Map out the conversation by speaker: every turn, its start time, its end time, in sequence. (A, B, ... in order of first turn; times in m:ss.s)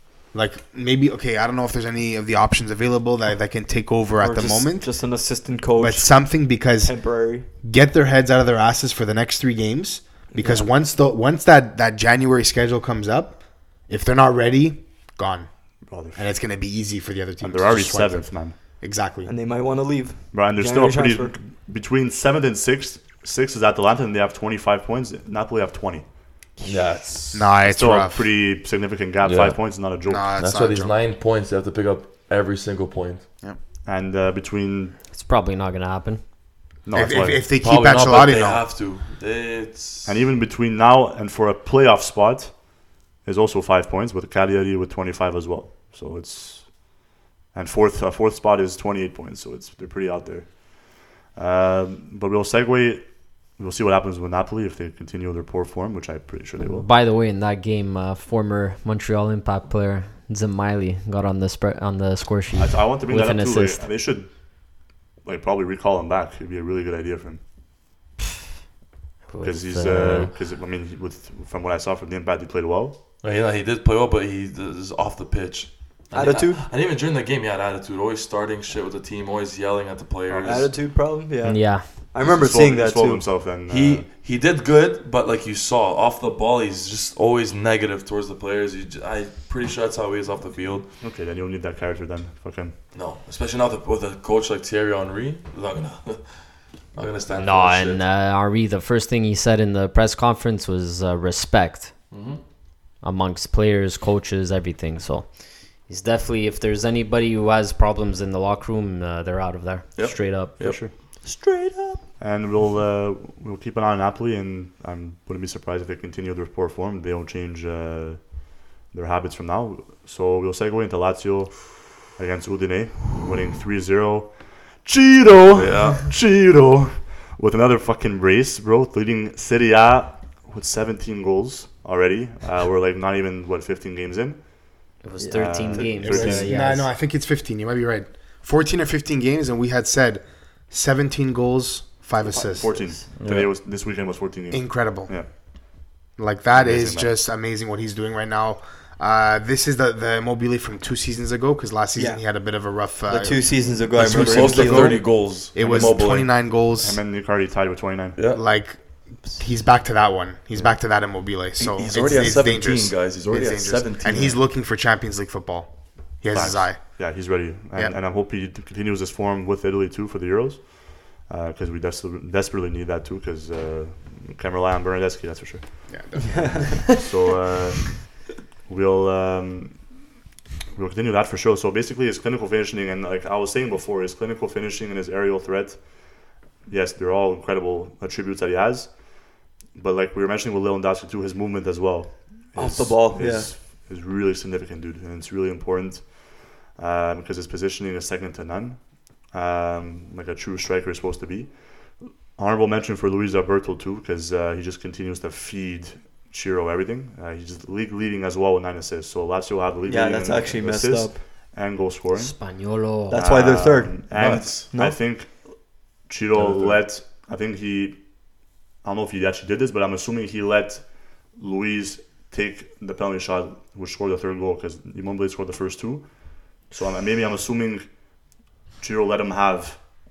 0:00.3-0:05.0 A
0:04.2-0:07.5 B
0:05.8-0:15.5 A
0:10.3-0:10.7 B
0:15.9-0:16.3 C
0:16.0-0:19.3 A
0:17.4-0:18.6 C
0:19.2-0:21.3 B
0:20.3-0:26.1 C
0:26.6-0:26.9 B
0:26.6-0:27.5 D
0:27.3-0:28.2 A
0:27.6-0:30.3 C
0:29.2-0:29.8 D
0:30.0-0:30.9 A
0:30.4-0:33.3 D
0:33.8-0:35.0 C
0:35.1-0:36.2 E
0:36.8-0:37.4 C
0:36.9-0:38.6 A
0:37.6-0:40.1 D
0:40.0-0:56.9 C
0:56.6-1:03.8 E
1:02.5-1:04.7 C
1:05.2-1:07.4 C
1:09.3-1:10.3 E
1:09.4-1:13.0 C
1:09.9-1:10.3 D
1:13.2-1:20.7 D
1:16.1-1:16.6 B
1:20.3-1:20.7 C
1:20.4-1:23.3 B
1:21.4-1:21.9 E
1:22.2-1:24.0 C
1:23.6-1:30.9 D
1:31.0-1:32.7 C
1:32.9-1:38.0 D
1:37.4-1:41.9 E
1:42.1-1:42.4 D
1:43.0-1:50.6 E
1:50.0-1:50.8 D
1:50.6-1:50.9 C
1:51.2-1:52.0 B
1:52.2-2:16.5 C
2:05.5-2:06.1 D
2:15.0-2:16.9 E
2:15.2-2:16.0 B
2:16.0-2:22.8 A
2:22.2-2:23.1 B
2:22.5-2:25.3 C
2:23.2-2:23.5 D
2:24.5-2:25.3 A
2:26.2-2:37.0 A
2:26.5-2:27.1 C
2:32.0-2:32.2 B
2:33.1-2:35.1 B
2:34.0-2:36.3 D
2:36.8-2:38.2 C
2:38.2-2:38.4 D
2:38.3-2:47.2 A
2:41.6-2:44.4 D
2:46.3-2:56.1 C
2:55.9-2:56.8 A
2:56.2-2:56.9 B
2:56.9-2:59.9 C
3:00.7-3:32.3 C
3:12.5-3:13.5 B
3:29.8-3:31.2 B
3:32.1-3:33.3 E
3:33.1-3:34.1 B
3:33.1-3:38.0 C
3:34.1-3:34.7 D
3:34.7-3:35.0 B
3:36.3-3:36.8 D
3:38.8-3:47.9 C
3:48.8-3:49.9 C